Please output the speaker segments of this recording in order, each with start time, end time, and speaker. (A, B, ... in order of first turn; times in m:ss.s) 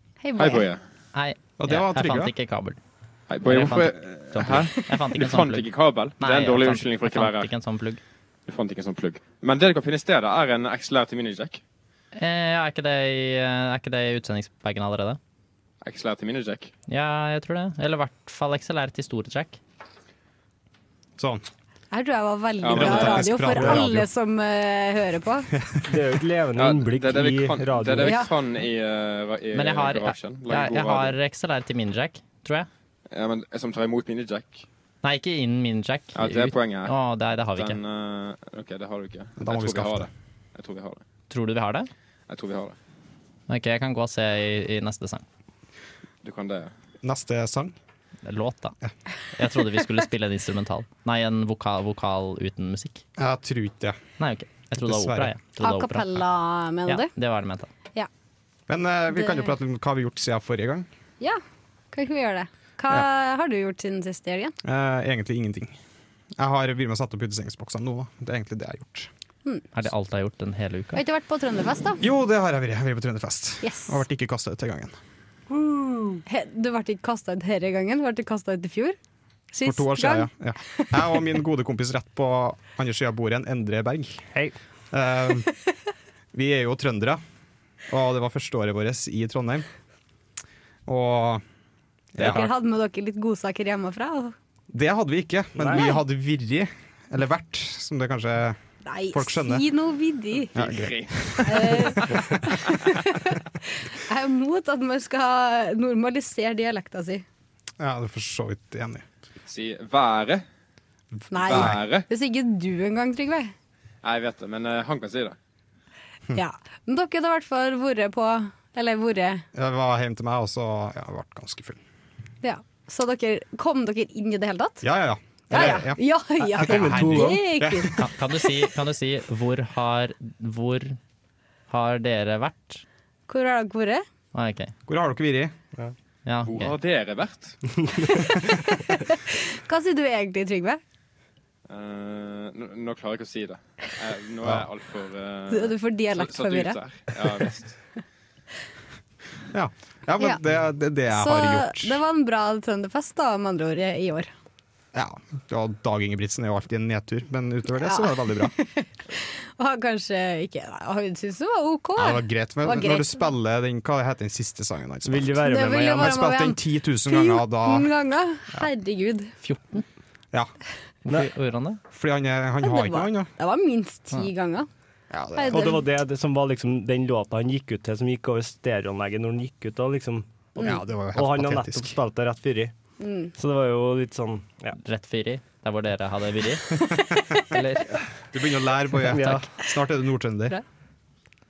0:00.2-0:00.7 A
0:00.4-0:00.8 B
0:01.1-0:02.8 C
0:01.6-0:02.3 D
0:03.3-0:07.5 B
0:03.4-0:08.0 C
0:08.5-0:11.6 B
0:12.2-0:15.2 C
0:15.8-0:16.7 B
0:16.9-0:19.6 C
0:21.2-0:21.4 D
0:21.9-0:25.5 A
0:22.6-0:23.3 B
0:22.7-0:24.1 D
0:23.5-0:23.8 E
0:25.6-0:26.0 D
0:25.8-0:28.2 E
0:26.6-0:31.2 B
0:28.0-0:28.3 A
0:29.5-0:32.7 C
0:33.1-0:34.6 B
0:35.0-0:37.8 C
0:36.1-0:41.0 B
0:39.4-0:40.1 D
0:41.3-0:41.9 C
0:42.3-0:42.8 B
0:43.5-0:45.2 C
0:46.2-0:46.7 B
0:47.0-0:47.7 D
0:48.2-0:48.7 C
0:49.3-0:53.0 C
0:53.2-0:54.0 D
0:54.2-0:56.1 C
0:54.7-0:55.3 D
0:55.6-0:57.1 A
0:56.9-0:57.7 C
0:58.7-1:00.9 D
0:59.1-0:59.5 A
1:01.9-1:04.5 A
1:04.6-1:05.8 D
1:06.4-1:09.1 D
1:09.7-1:11.0 C
1:10.9-1:12.0 A
1:12.0-1:14.9 D
1:13.6-1:14.0 A
1:15.5-1:16.2 E
1:16.3-1:19.0 A
1:19.5-1:21.2 A
1:19.6-1:24.2 D
1:24.9-1:25.5 D
1:26.3-1:27.2 D
1:27.9-1:29.7 D
1:30.8-1:31.4 D
1:32.1-1:32.5 D
1:32.2-1:34.3 A
1:34.7-1:38.6 D
1:35.6-1:35.8 E
1:38.8-1:40.6 A
1:39.1-1:39.6 D
1:40.5-1:42.0 D
1:40.6-1:42.2 B
1:41.4-1:47.2 A
1:47.8-1:49.0 D
1:49.5-1:50.4 B
1:51.3-1:53.5 A
1:51.4-1:52.0 B
1:51.4-1:51.8 D
1:54.0-1:55.4 B
1:56.3-1:59.4 A
1:59.5-2:01.8 D
2:02.4-2:04.8 A
2:04.8-2:08.1 D
2:05.5-2:08.1 A
2:06.6-2:07.4 E
2:08.0-2:11.0 C
2:11.7-2:12.8 C
2:13.3-2:14.0 A
2:14.3-2:14.7 C
2:14.9-2:15.6 D
2:16.2-2:16.7 C
2:16.4-2:17.6 B
2:18.1-2:20.8 A
2:21.7-2:27.8 B
2:25.5-2:26.8 A
2:29.5-2:32.0 D
2:31.1-2:34.3 A
2:34.9-2:38.5 D
2:37.8-2:43.2 A
2:42.0-2:47.9 D
2:45.0-2:46.0 E
2:45.4-2:49.3 A
2:49.4-2:49.8 C
2:51.1-2:51.8 C
2:51.9-2:53.3 D
2:52.6-2:54.7 A
2:55.1-2:55.8 D
2:55.3-2:55.8 A
2:55.4-3:02.7 E
3:00.6-3:02.0 D
3:03.0-3:03.3 A
3:03.4-3:04.8 E
3:04.8-3:06.8 C
3:06.9-3:07.4 A
3:07.4-3:07.9 C
3:08.3-3:10.6 D
3:09.0-3:09.5 E